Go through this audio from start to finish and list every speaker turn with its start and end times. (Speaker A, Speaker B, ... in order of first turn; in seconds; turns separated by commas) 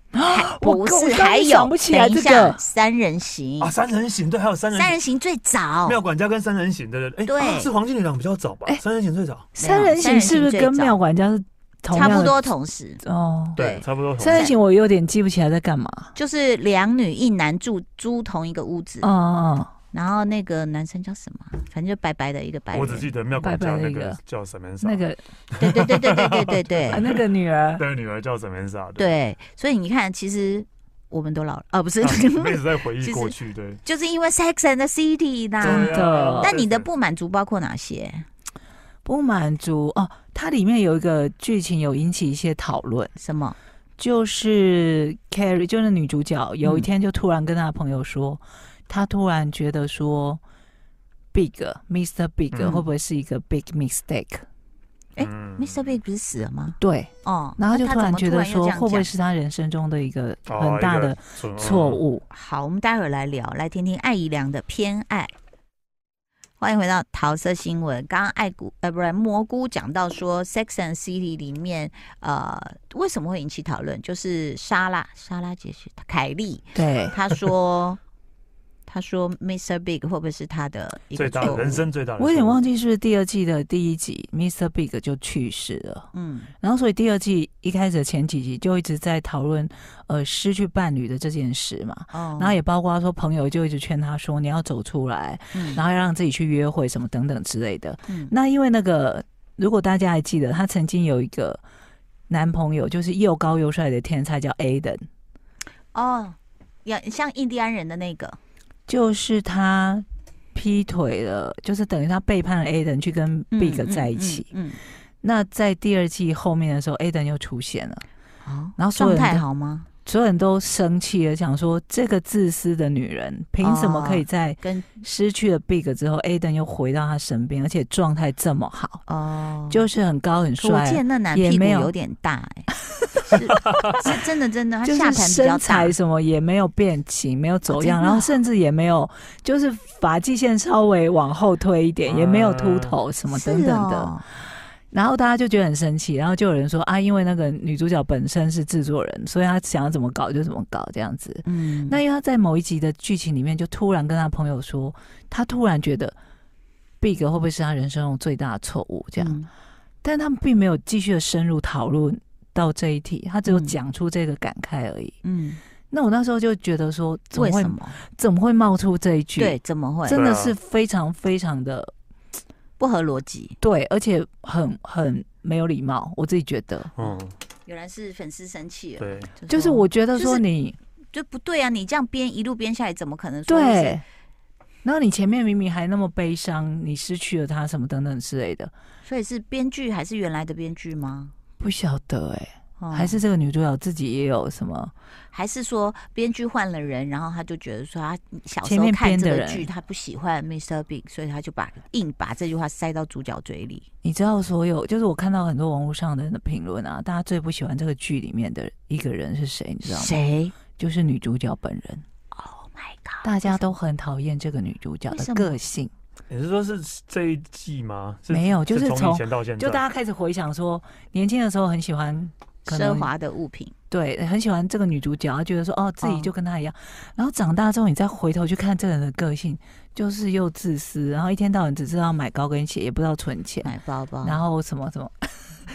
Speaker A: 0.1-2.6, Speaker B: 0.3-3.7, Speaker C: 3.6-5.0, Speaker B: 4.7-6.0, Speaker C: 5.9-9.5, Speaker B: 7.2-7.7, Speaker B: 9.6-11.0, Speaker A: 9.6-12.5, Speaker B: 11.9-13.0, Speaker A: 13.0-13.6, Speaker C: 13.6-14.5, Speaker B: 13.6-14.6, Speaker A: 14.2-16.1, Speaker B: 16.1-19.1, Speaker A: 19.0-19.7, Speaker B: 19.9-23.1, Speaker C: 22.7-25.1, Speaker A: 23.4-24.2, Speaker A: 24.8-25.2, Speaker B: 25.6-27.1, Speaker C: 25.6-27.2, Speaker A: 26.9-27.9, Speaker C: 27.8-29.1, Speaker B: 29.0-38.3, Speaker C: 32.0-33.8, Speaker A: 35.6-36.5, Speaker C: 35.6-36.9, Speaker A: 39.0-43.1, Speaker B: 43.2-43.6, Speaker A: 44.0-50.4, Speaker B: 46.6-46.9, Speaker A: 51.3-54.5, Speaker B: 52.5-52.9, Speaker B: 55.2-59.1, Speaker C: 55.2-55.8, Speaker A: 56.8-62.3, Speaker C: 60.5-62.0, Speaker B: 62.3-65.3, Speaker B: 66.6-78.0, Speaker A: 76.8-77.2, Speaker B: 78.9-81.9, Speaker C: 81.2-82.6, Speaker A: 82.2-86.1, Speaker B: 86.1-86.5, Speaker A: 86.6-101.6, Speaker B: 92.1-92.6, Speaker B: 95.5-95.8, Speaker B: 98.1-98.3, Speaker A: 102.3-105.0, Speaker B: 105.9-108.4, Speaker A: 108.9-114.5, Speaker B: 113.5-114.8, Speaker A: 115.2-118.0, Speaker B: 118.4-119.9, Speaker A: 118.8-119.4, Speaker A: 120.0-129.0, Speaker B: 123.6-124.9, Speaker B: 129.1-129.9, Speaker A: 129.7-131.9, Speaker B: 130.6-132.7, Speaker B: 133.2-136.0, Speaker A: 134.8-144.2, Speaker B: 137.7-138.4, Speaker C: 142.1-143.0, Speaker B: 143.3-144.3, Speaker A: 144.9-156.2, Speaker B: 151.4-152.0, Speaker A: 157.0-159.4, Speaker B: 159.2-159.5, Speaker A: 160.0-165.2, Speaker B: 163.5-163.8, Speaker B: 165.2-165.6, Speaker A: 165.9-171.9, Speaker B: 167.3-168.0, Speaker B: 169.4-170.2, Speaker C: 170.1-170.6, Speaker B: 172.8-173.6, Speaker A: 173.6-176.9, Speaker C: 177.0-177.3, Speaker B: 177.7-180.4, Speaker C: 179.0-179.3, Speaker A: 179.5-180.8, Speaker B: 181.1-184.0, Speaker A: 183.5-184.0, Speaker A: 184.8-188.7, Speaker B: 189.1-191.3, Speaker A: 191.6-194.9, Speaker B: 192.8-193.2, Speaker B: 195.3-203.8, Speaker A: 198.6-199.7, Speaker A: 204.0-210.2, Speaker B: 209.8-210.5, Speaker A: 210.8-212.0, Speaker B: 212.3-213.7, Speaker A: 213.2-215.9, Speaker B: 215.1-215.6, Speaker C: 216.3-219.8, Speaker A: 218.3-223.1, Speaker B: 222.7-223.7, Speaker A: 223.9-233.7, Speaker B: 226.0-226.3, Speaker B: 233.6-234.4, Speaker A: 234.2-235.5